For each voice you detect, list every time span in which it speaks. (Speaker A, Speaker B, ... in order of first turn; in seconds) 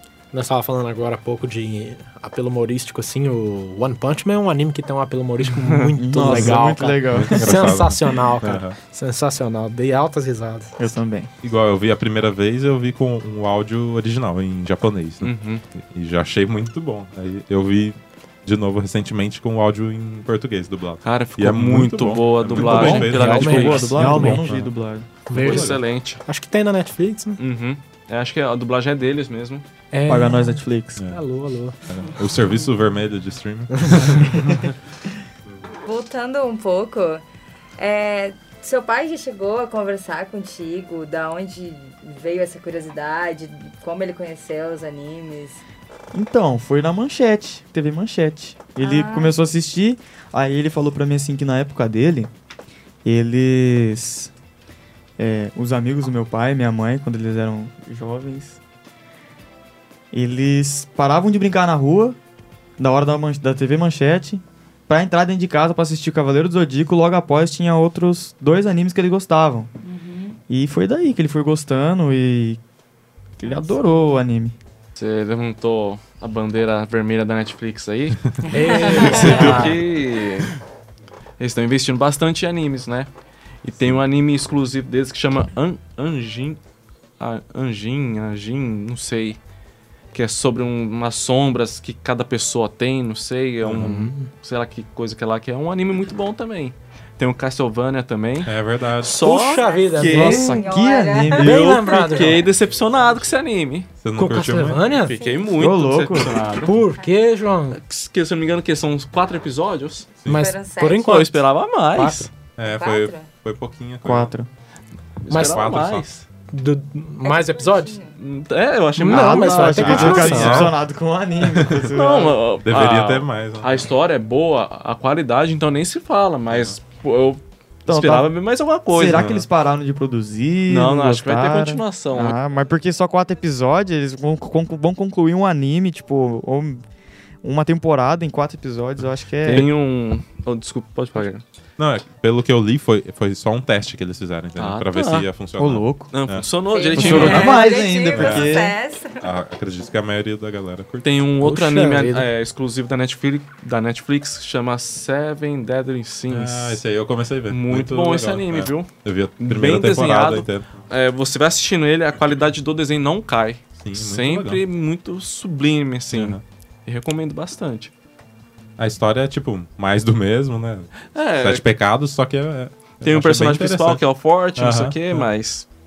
Speaker A: 0.3-10.8, 22.6-24.4, 25.3-27.4, 29.9-31.8, 33.8-34.5, 78.5-79.7, 93.8-94.3, 99.0-100.5, 101.4-102.4, 104.2-105.2, 106.5-107.8, 110.3-112.3, 115.3-115.7, 116.5-118.0, 119.0-120.7, 151.4-152.3
Speaker B: 5.6-5.9, 15.2-15.6, 21.1-24.4, 25.3-26.2, 27.4-29.6, 75.0-78.2, 78.8-80.5, 81.4-83.1, 83.7-86.6, 87.2-89.4, 90.1-100.5, 101.4-103.9, 105.1-106.8, 107.7-110.1, 111.0-112.3, 115.2-116.3, 118.2-120.7, 121.7-129.3, 130.7-132.4, 139.4-141.4, 144.6-145.2, 146.1-147.7, 151.0-156.8, 157.5-167.9, 171.1-171.7, 173.0-175.7
Speaker C: 6.0-7.8, 10.8-11.3, 22.6-25.1, 30.1-31.0, 34.3-34.7, 46.1-52.3, 53.0-54.3, 55.2-58.6, 60.1-62.2, 62.8-69.7, 70.5-72.6, 73.4-74.5, 79.2-79.8, 100.1-102.0, 105.5-106.4, 114.0-114.5, 119.0-122.4, 127.9-128.3, 128.9-136.8, 137.4-139.7, 145.6-146.1, 146.9-148.8
Speaker D: 6.3-6.6, 7.1-8.8, 11.4-24.7, 25.3-25.8, 31.9-34.4, 83.7-84.0, 93.6-94.1, 98.4-99.2, 104.0-105.1, 112.6-114.3, 115.3-116.1, 119.8-120.8, 121.4-121.9, 122.6-123.9, 126.5-126.8, 129.1-129.5, 141.8-146.5, 147.1-147.4, 148.1-148.6, 149.2-151.2, 156.3-160.8, 163.8-164.6, 166.1-166.4, 168.8-174.0, 174.6-175.3
Speaker E: 35.9-37.2, 37.8-45.6, 48.8-49.4, 69.8-70.4, 78.5-79.6, 99.4-102.9, 105.2-105.6, 110.3-111.2, 112.7-113.3, 117.2-118.2, 146.7-149.2